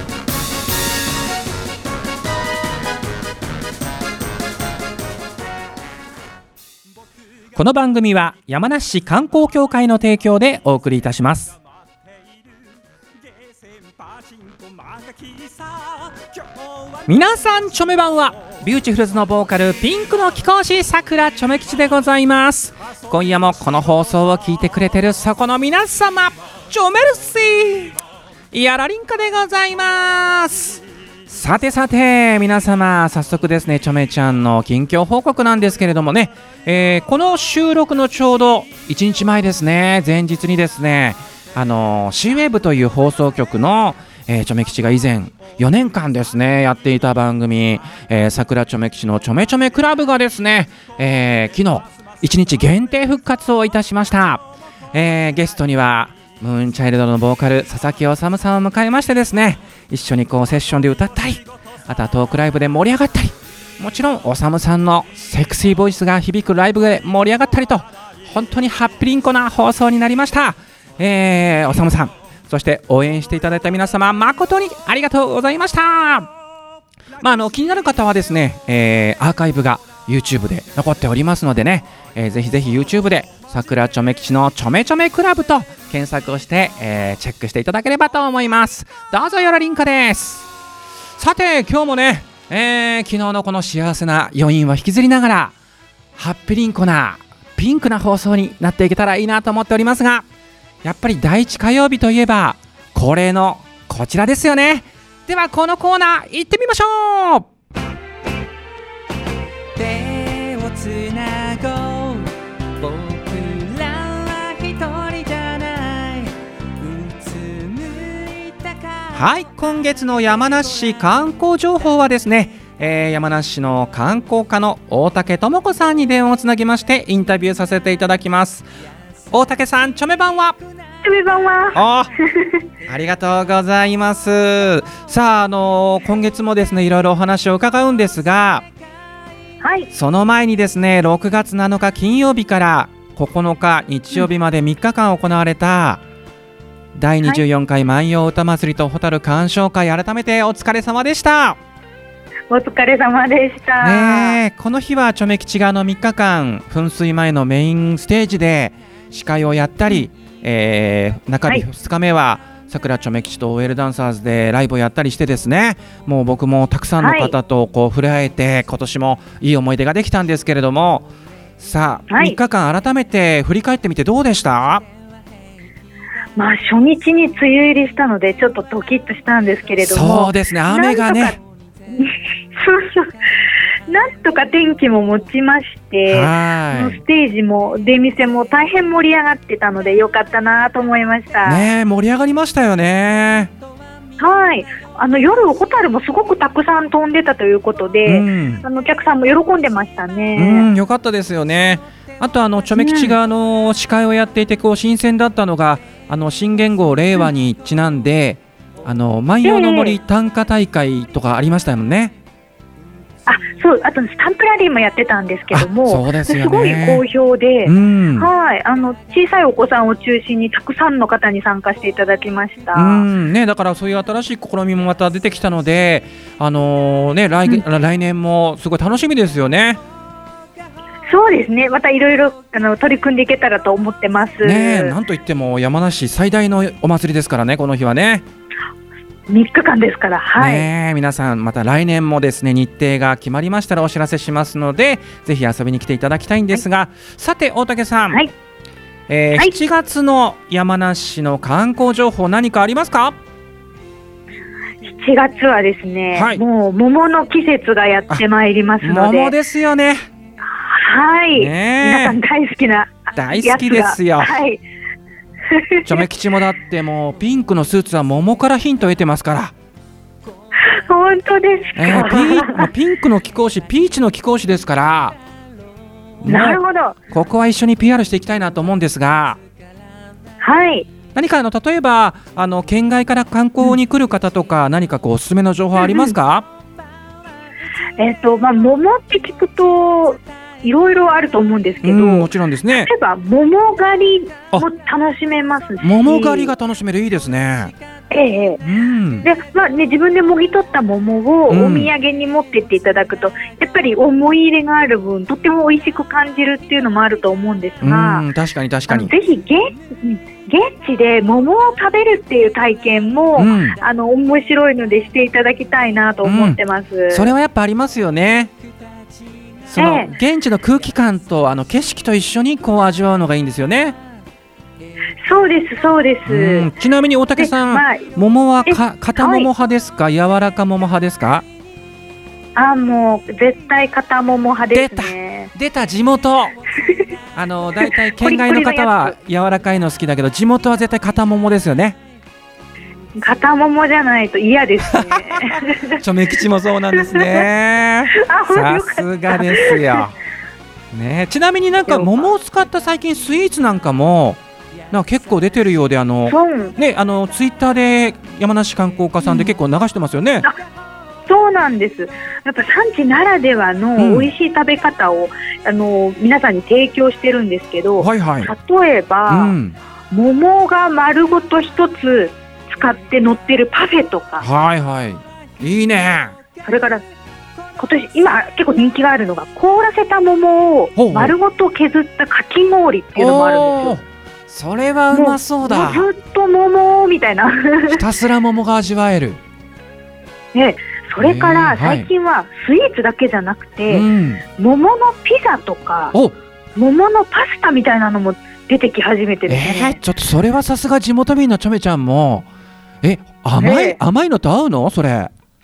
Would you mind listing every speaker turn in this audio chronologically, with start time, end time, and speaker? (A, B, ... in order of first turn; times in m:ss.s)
0:07.5-0:11.6 A
0:17.1-0:27.9 A
0:28.5-1:16.3 A
1:17.2-1:30.5 A
1:31.2-1:35.6 A
1:36.2-1:40.3 A
1:40.8-1:47.5 A
1:49.8-1:58.0 A
1:59.1-2:08.7 A
2:09.3-2:10.6 A
2:11.0-2:12.6 B
2:11.7-2:12.1 A
2:12.9-2:18.7 A
2:19.6-2:19.9 B
2:19.9-2:26.0 A
2:26.9-2:31.6 A
2:32.5-2:34.4 B
2:33.8-2:51.1 A
2:47.0-2:47.3 B
2:51.6-2:54.9 A
2:52.1-2:52.4 B
2:56.4-3:01.4 B
2:59.8-3:01.4 A
3:01.9-3:03.1 B
3:03.9-3:11.6 B
3:06.1-3:07.0 A
3:11.4-3:13.5 A
3:14.2-3:20.7 B
3:18.1-3:18.6 A
3:20.3-3:32.2 A
3:22.8-3:23.2 B
3:29.4-3:30.0 B
3:33.3-3:43.0 B
3:35.5-3:37.0 A
3:37.6-3:38.3 A
3:42.7-3:49.8 A
3:51.1-3:55.0 B
3:54.4-3:58.2 A
3:59.3-4:00.7 B
4:00.4-4:08.2 A
4:09.1-4:13.2 A
4:14.8-4:19.3 B
4:16.1-4:16.4 A
4:18.8-4:20.1 A
4:20.5-4:24.6 B
4:21.3-4:22.2 A
4:23.2-4:24.3 A
4:25.5-4:26.0 B
4:25.8-4:29.5 A
4:30.7-4:32.7 B
4:31.8-4:35.2 A
4:36.2-4:39.4 A
4:36.2-4:37.0 B
4:40.4-4:40.9 B
4:41.1-4:46.5 A
4:45.8-4:46.1 B
4:48.0-4:56.5 B
4:51.8-4:52.9 A
4:55.8-4:57.7 A
4:58.1-4:58.6 B
4:58.6-4:59.3 A
4:59.2-5:08.2 B
5:01.5-5:01.9 A
5:07.8-5:09.1 A
5:08.9-5:17.3 B
5:13.4-5:13.8 A
5:16.2-5:18.5 A
5:19.7-5:24.0 A
5:19.8-5:20.1 B
5:25.2-5:26.7 B
5:26.3-5:31.4 A
5:27.4-5:28.1 B
5:28.6-5:29.5 B
5:32.6-5:35.5 B
5:34.7-5:36.5 A
5:36.8-5:37.0 B
5:37.3-5:42.0 A
5:37.8-5:39.1 B
5:43.2-5:46.0 B
5:44.9-5:50.1 A
5:46.9-5:47.5 B
5:48.1-5:50.0 B
5:50.9-5:54.4 A
5:51.9-5:52.2 B
5:54.9-6:00.5 A
5:56.3-5:56.8 B
6:01.3-6:09.6 B
6:04.0-6:04.3 A
6:08.0-6:08.5 A
6:09.3-6:09.8 A
6:10.1-6:14.4 B
6:14.4-6:16.3 A
6:16.6-6:17.0 B
6:17.8-6:24.0 B
6:21.0-6:21.3 A
6:23.2-6:26.0 A
6:25.1-6:28.0 B
6:27.9-6:29.4 A
6:30.5-6:36.1 B
6:31.2-6:32.1 A
6:33.9-6:34.4 A
6:36.8-6:40.0 B
6:39.5-6:42.5 A
6:43.0-6:45.3 A
6:43.6-6:44.0 B